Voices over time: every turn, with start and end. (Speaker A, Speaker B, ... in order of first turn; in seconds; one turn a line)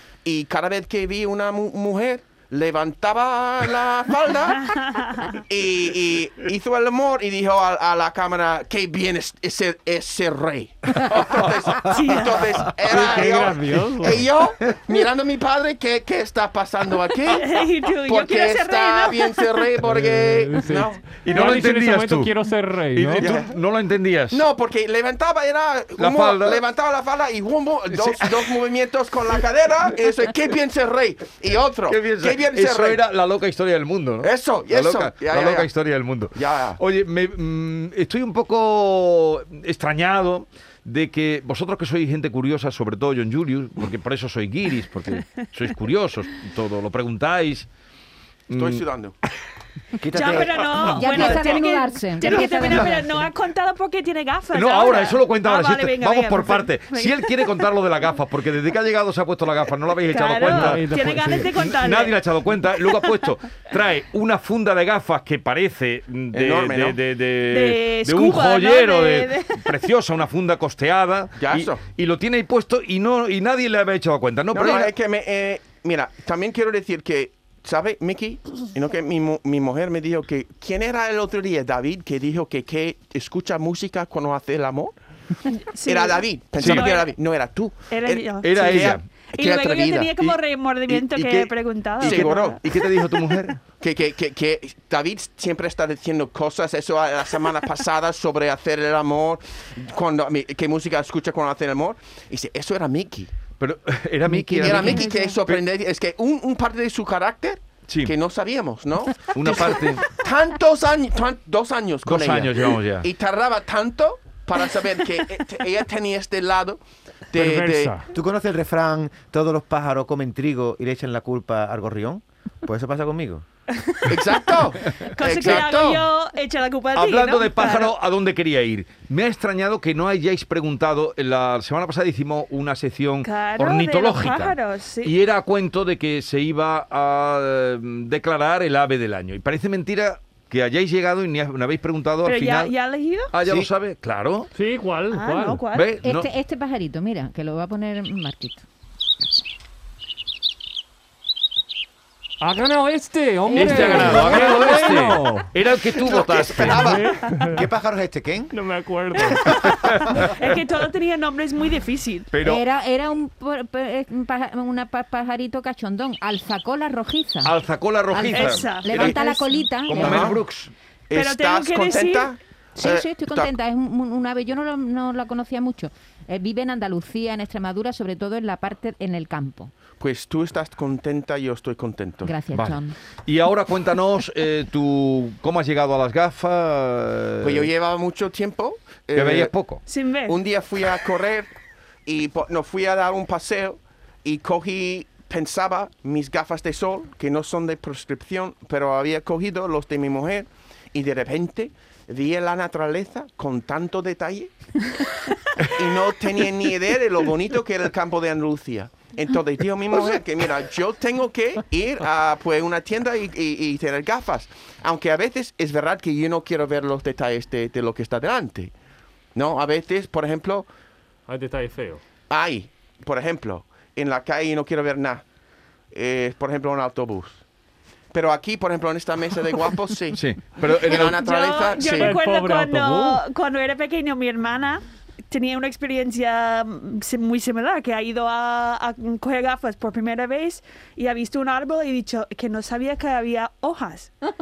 Speaker A: 0.2-4.8
Speaker B: 4.6-5.3
Speaker A: 5.3-21.1
Speaker B: 11.9-12.6
Speaker C: 12.9-14.3
Speaker B: 17.3-19.7
Speaker C: 19.8-23.3
Speaker D: 21.1-22.3
Speaker D: 22.9-24.4
Speaker A: 23.2-23.6
Speaker A: 24.3-33.0
Speaker D: 26.0-26.6
Speaker D: 27.9-28.5
Speaker D: 31.9-47.7
Speaker A: 34.2-35.7
Speaker A: 36.3-36.8
Speaker D: 48.5-48.8
Speaker A: 48.5-49.1
Speaker E: 50.0-51.4
Speaker B: 50.1-57.6
Speaker F: 50.9-53.2
Speaker D: 54.5-60.9
Speaker B: 60.1-63.1
Speaker C: 60.4-61.5
Speaker D: 61.5-74.9
Speaker A: 66.3-67.0
Speaker B: 67.5-69.8
Speaker A: 71.4-71.8
Speaker A: 74.5-85.0
Speaker B: 85.5-87.1
Speaker A: 85.8-90.3
Speaker D: 86.6-86.9
Speaker B: 87.9-88.6
Speaker D: 88.4-89.0
Speaker B: 89.3-92.6
Speaker A: 91.0-91.3
Speaker D: 91.1-93.6
Speaker A: 92.0-92.8
Speaker A: 93.8-103.3
Speaker D: 103.6-105.6
Speaker F: 104.2-105.3
Speaker A: 104.6-117.9
Speaker B: 104.8-105.4
Speaker D: 107.9-108.1
Speaker D: 109.2-110.1
Speaker D: 112.0-113.1
Speaker C: 117.3-118.1
Speaker E: 118.1-123.4
Speaker B: 123.7-127.9
Speaker A: 124.1-126.0
Speaker D: 126.9-142.7
Speaker B: 133.2-135.1
Speaker B: 142.2-143.3
Speaker D: 143.3-144.5
Speaker C: 144.5-145.6
Speaker B: 145.1-145.9
Speaker D: 145.7-146.3
Speaker F: 146.0-148.6
Speaker C: 152.4-155.5
Speaker F: 153.5-155.1
Speaker D: 153.5-157.0
Speaker A: 155.9-157.2
Speaker C: 156.6-157.6
Speaker E: 157.3-158.5
Speaker C: 158.5-159.5
Speaker B: 159.3-162.3
Speaker D: 159.7-160.3
Speaker D: 162.3-162.6
Speaker F: 162.4-167.5
Speaker D: 167.4-169.2
Speaker F: 168.1-170.4
Speaker B: 168.3-169.7
Speaker D: 169.7-170.7
Speaker A: 169.9-170.4
Speaker A: 171.1-173.5
Speaker B: 171.1-172.3
Speaker F: 172.8-179.7
Speaker A: 180.0-182.3
Speaker F: 182.2-183.0
Speaker D: 182.5-187.7
Speaker A: 187.4-189.5
Speaker D: 189.1-189.8
Speaker B: 189.8-190.4
Speaker A: 190.2-191.5
Speaker A: 192.1-204.5
Speaker A: 205.6-218.7
Speaker A: 219.3-220.7
Speaker C: 221.3-222.0
Speaker A: 222.3-225.2
Speaker A: 225.9-227.4
Speaker A: 228.1-232.1
Speaker D: 230.1-231.3
Speaker B: 230.9-244.1
Speaker C: 231.9-233.2